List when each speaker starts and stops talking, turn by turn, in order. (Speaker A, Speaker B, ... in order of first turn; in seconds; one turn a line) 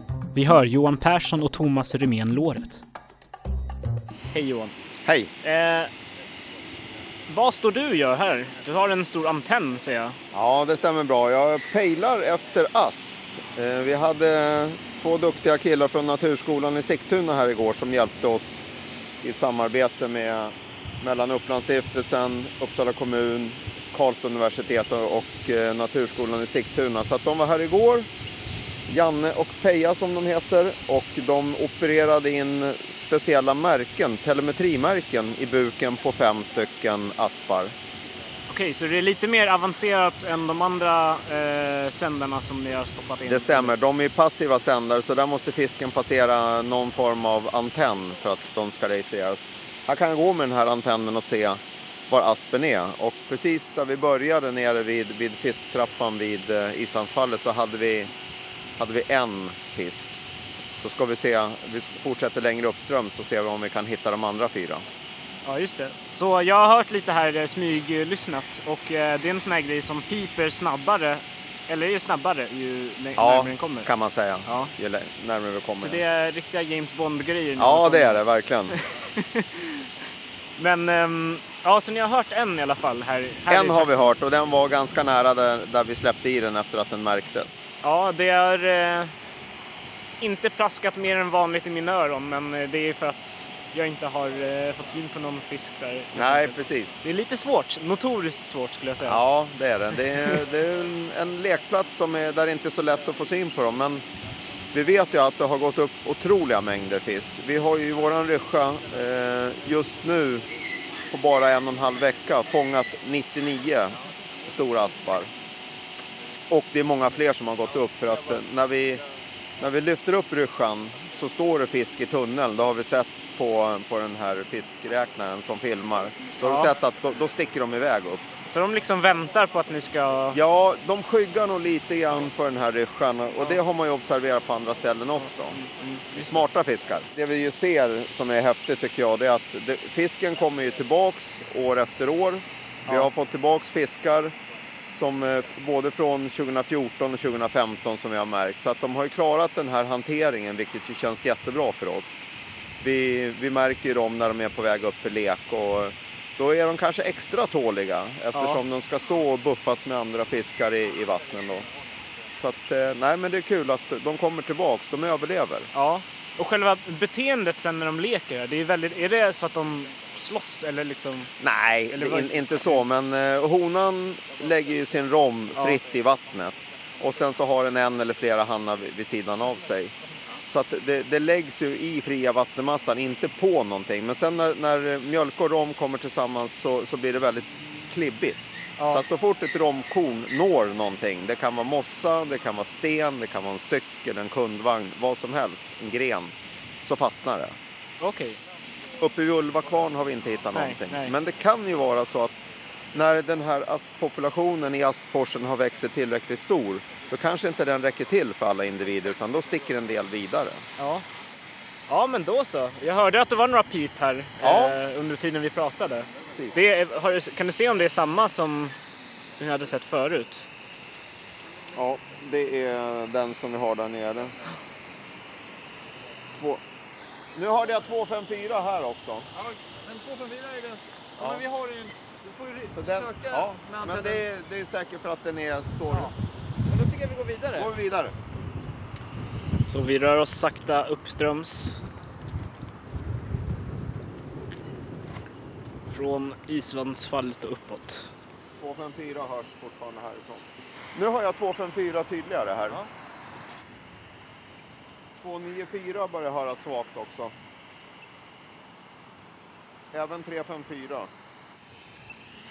Speaker A: 0.3-2.8
Speaker A: 4.3-4.7
Speaker B: 5.0-5.3
Speaker A: 5.4-5.9
Speaker A: 7.3-10.2
Speaker B: 10.3-18.6
Speaker B: 19.2-28.1
Speaker B: 28.9-37.7
Speaker A: 38.5-43.7
Speaker B: 43.2-58.1
Speaker B: 58.8-60.1
Speaker B: 60.8-64.8
Speaker A: 65.4-73.9
Speaker B: 73.2-76.0
Speaker A: 74.4-74.7
Speaker A: 75.8-78.2
Speaker B: 77.6-78.8
Speaker A: 78.7-79.6
Speaker A: 80.6-83.9
Speaker B: 83.5-87.6
Speaker A: 87.8-89.1
Speaker A: 90.2-99.2
Speaker B: 96.1-97.0
Speaker B: 99.0-104.0
Speaker B: 104.7-110.5
Speaker B: 111.1-115.3
Speaker B: 116.5-119.0
Speaker B: 119.6-128.2
Speaker A: 126.4-126.7
Speaker A: 128.5-130.4
Speaker B: 130.3-135.6
Speaker A: 135.6-136.4
Speaker B: 136.1-144.3
Speaker B: 144.9-152.2
Speaker B: 152.8-161.7
Speaker A: 158.3-158.6
Speaker B: 162.4-165.7
Speaker A: 165.8-171.3
Speaker B: 171.4-179.9
Speaker A: 171.9-172.8
Speaker B: 180.4-197.6
Speaker A: 188.8-189.0
Speaker A: 198.0-198.4
Speaker B: 199.0-202.3
Speaker A: 200.5-201.1
Speaker B: 202.9-210.6
Speaker A: 210.8-211.1
Speaker A: 211.9-218.8
Speaker B: 214.4-214.8
Speaker B: 216.3-216.6
Speaker A: 219.4-220.5
Speaker B: 221.7-224.3
Speaker B: 226.3-226.6
Speaker B: 227.3-229.3
Speaker C: 229.3-234.2
Speaker B: 232.8-236.1
Speaker C: 236.7-237.7
Speaker B: 237.6-238.1
Speaker A: 239.7-241.8
Speaker A: 245.9-248.1
Speaker B: 248.6-252.8
Speaker B: 255.2-257.3
Speaker B: 259.9-261.1